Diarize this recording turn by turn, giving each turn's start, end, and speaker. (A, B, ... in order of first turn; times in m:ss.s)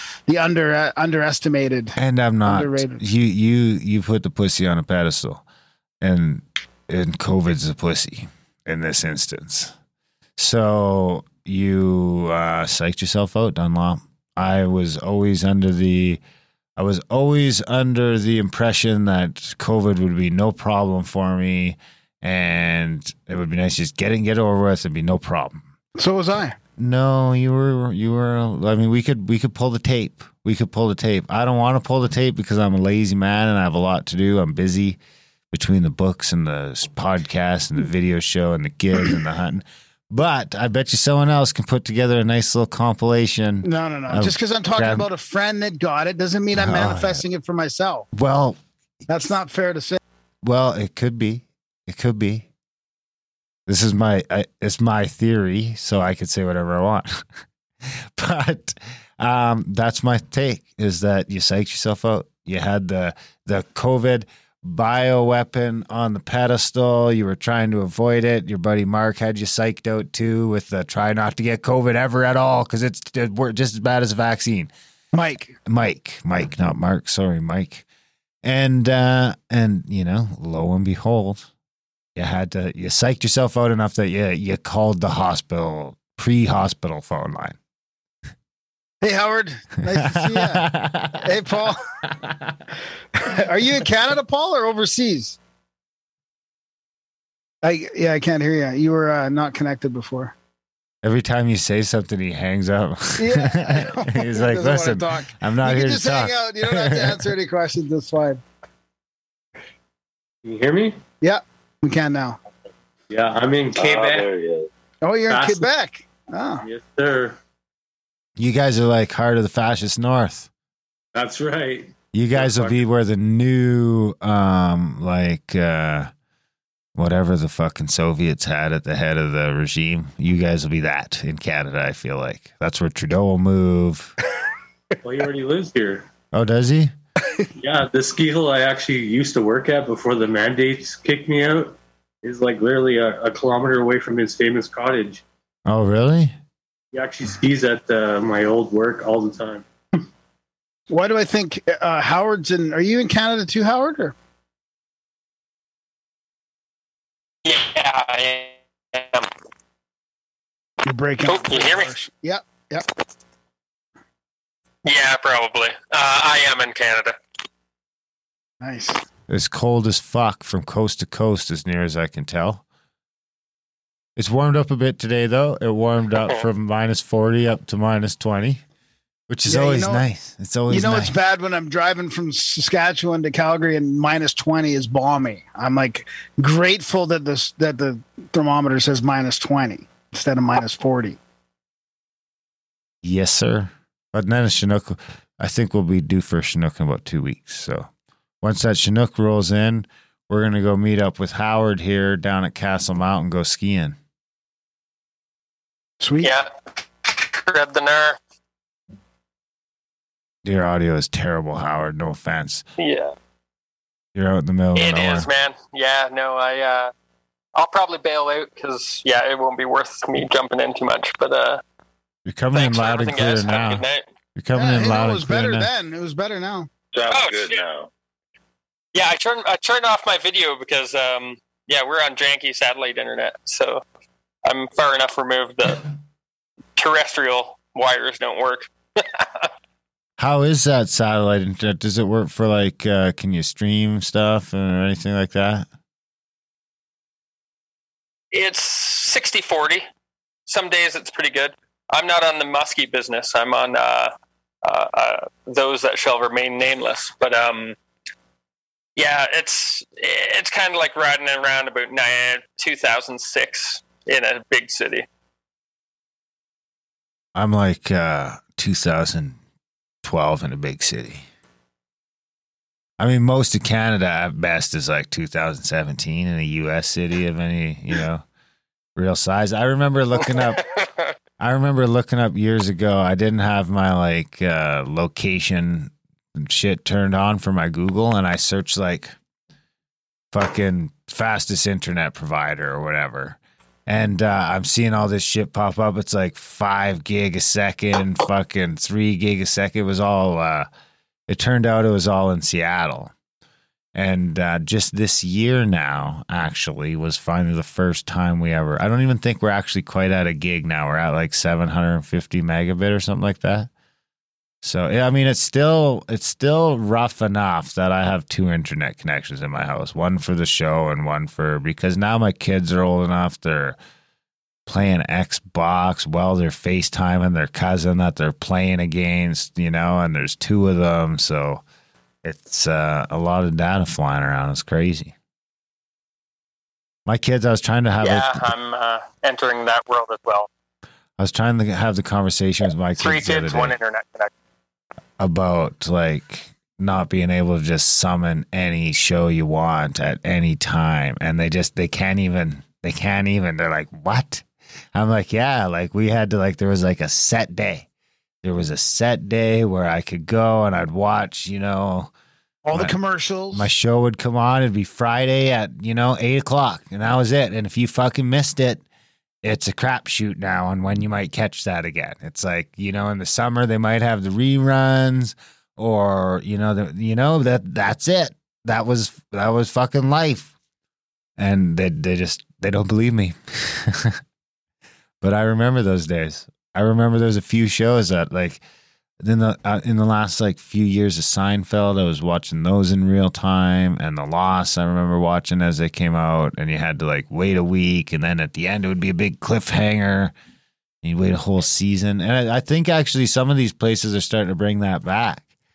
0:00.3-0:03.0 A
0:02.0-0:05.4 B
0:06.0-0:09.7 B
0:10.4-0:16.2 B
0:16.8-0:25.6 B
0:26.0-0:26.6 A
0:26.8-0:35.0 B
0:35.5-0:45.1 B
0:43.6-0:48.1 A
0:46.5-0:47.2 B
0:48.1-0:48.6 B
0:49.1-0:50.0 A
0:50.4-0:52.5 B
0:53.7-0:57.3 B
0:57.8-1:14.7 B
1:15.1-1:15.6 A
1:15.7-1:17.8 B
1:18.4-1:21.5 B
1:22.2-1:27.6 B
1:29.0-1:30.6 A
1:29.9-1:31.4 B
1:31.2-1:31.8 A
1:32.2-1:32.5 B
1:33.2-1:35.4 A
1:37.6-1:40.3 A
1:41.0-1:47.3 B
1:43.2-1:48.4 A
1:50.4-1:51.0 C
1:51.2-1:52.4 A
1:53.1-1:54.3 C
1:53.7-1:54.7 D
1:55.0-1:56.6 A
1:55.3-1:55.7 C
1:56.6-1:57.4 C
1:58.4-2:00.5 B
2:01.1-2:02.9 C
2:02.1-2:06.1 B
2:07.0-2:14.1 B
2:15.0-2:16.1 C
2:16.3-2:16.9 B
2:17.6-2:25.2 C
2:25.7-2:26.4 B
2:26.9-2:29.7 C
2:30.9-2:34.2 A
2:37.4-2:39.3 E
2:40.8-2:42.9 A
2:41.2-2:41.9 E
2:44.8-2:47.2 E
2:48.6-2:49.0 A
2:49.3-2:52.6 B
2:54.2-2:58.6 B
2:59.3-3:01.2 B
2:59.5-3:00.0 A
3:00.7-3:11.2 A
3:13.0-3:17.9 B
3:18.4-3:24.0 B
3:26.0-3:26.3 A
3:27.4-3:28.2 E
3:30.4-3:32.7 B
3:32.8-3:33.1 E
3:34.2-3:35.3 B
3:34.8-3:36.9 E
3:37.6-3:41.6 E
3:42.2-3:43.8 B
3:42.5-3:44.0 E
3:44.4-3:45.7 B
3:44.5-3:46.7 A
3:46.9-3:47.9 D
3:47.1-3:47.6 E
3:48.9-3:53.8 E
3:54.4-3:55.9 E
3:56.8-3:59.5 E
4:00.2-4:05.7 B
4:08.3-4:09.9 E
4:10.5-4:14.1 E
4:14.6-4:17.8 E
4:19.0-4:25.0 E
4:27.4-4:29.4 B
4:30.0-4:31.2 B
4:33.0-4:38.2 B
4:39.0-4:40.7 B
4:41.4-4:49.2 B
4:50.3-5:00.7 B
5:01.3-5:03.1 B
5:03.9-5:13.7 B
5:14.6-5:23.8 B
5:24.7-5:31.6 B
5:32.2-5:35.2 B
5:37.1-5:38.4 B
5:38.0-5:40.5 E
5:41.2-5:43.8 B
5:43.0-5:44.3 E
5:45.2-5:57.9 B
5:58.4-6:02.1 B
6:02.6-6:03.7 A
6:03.5-6:08.8 B
6:09.4-6:20.5 B
6:21.4-6:24.2 B
6:25.2-6:28.6 B
6:29.2-6:40.3 B
6:41.0-6:45.4 B